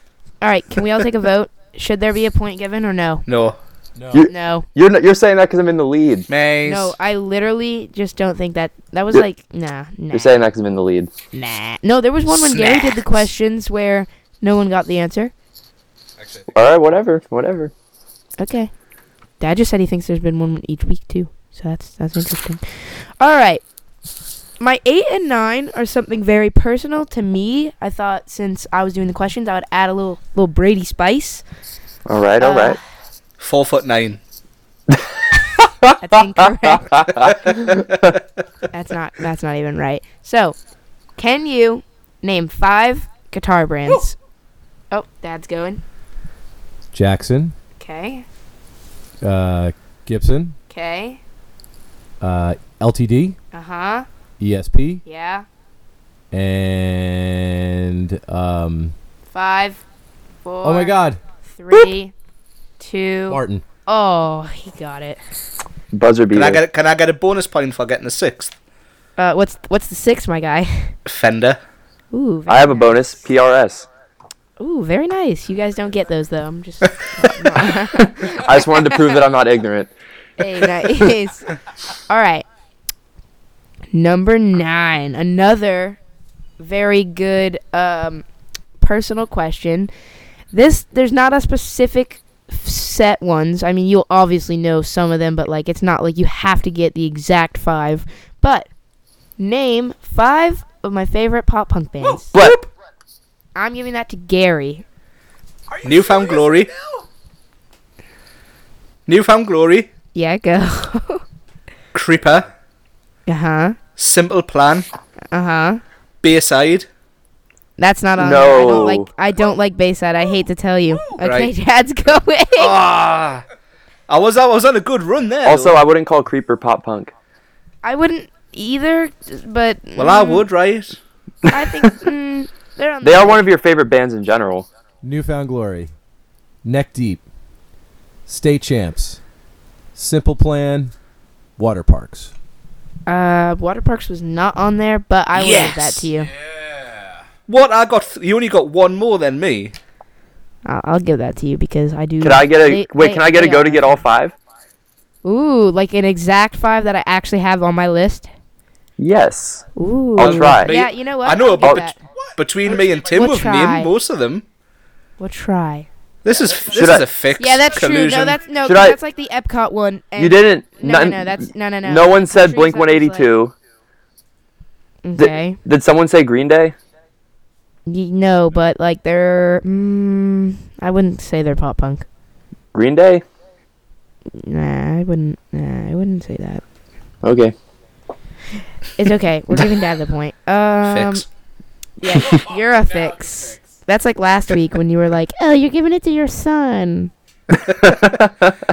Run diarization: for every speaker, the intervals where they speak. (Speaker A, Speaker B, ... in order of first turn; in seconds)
Speaker A: 0.4-3.2, 4.3-4.7, 6.6-10.4, 11.3-15.3, 18.4-18.7, 19.4-23.6, 24.6-31.4, 32.4-32.8, 36.0-37.2, 38.7-40.5, 41.2-44.1, 44.9-45.8, 47.8-48.2, 50.7-51.2, 53.5-54.1, 55.0-55.5, 59.3-59.8, 60.4-62.1, 62.8-65.2, 69.2-70.9, 72.1-73.2, 74.6-79.1, 80.4-82.4, 83.9-86.0, 86.6-88.2, 88.8-89.9, 90.5-98.7, 99.4-102.3, 103.5-104.8, 110.1-111.2, 113.3-113.8, 115.3-115.8, 117.8-122.7, 127.8-130.4, 131.5-133.4, 143.1-146.3, 150.6-154.0, 155.2-158.3, 159.8-162.0, 163.1-163.9, 165.2-165.9, 167.4-173.3, 175.0-175.6, 177.8-182.1, 184.3-186.6, 188.9-191.2, 192.0-197.1
Speaker B: 3.3-3.6, 6.3-7.0, 12.3-13.0, 33.4-34.2, 37.2-38.2, 66.3-68.5, 71.0-71.6, 102.3-102.7, 105.8-106.7, 109.1-109.9, 111.9-112.5, 114.0-114.9, 116.2-116.9, 121.2-121.5, 122.6-123.4, 124.1-125.8, 130.0-131.0, 145.3-146.1, 147.5-149.7, 160.2-164.4, 166.2-168.4, 190.8-191.2
Speaker C: 4.0-4.3, 16.2-16.5, 46.9-47.5, 49.2-50.6, 52.2-53.4, 54.4-55.0, 56.3-58.9, 60.6-61.2, 63.3-63.6, 105.7-107.0, 135.0-135.9, 136.6-137.2, 138.3-139.2, 139.9-140.9, 141.6-142.3, 146.1-147.2, 162.2-163.1, 166.4-166.9, 192.2-193.7
Speaker D: 4.1-6.3, 10.1-11.1, 16.5-17.7, 32.1-32.8, 35.6-35.9, 36.7-38.0, 65.9-66.6, 72.5-73.8, 77.9-79.9, 102.3-102.6, 118.2-119.1, 125.4-127.1, 133.0-134.7, 152.2-154.3, 159.0-160.8, 161.6-161.9, 166.7-167.1, 168.6-169.0, 170.2-173.5, 175.2-176.7, 182.7-183.2, 187.2-187.5, 197.8-198.5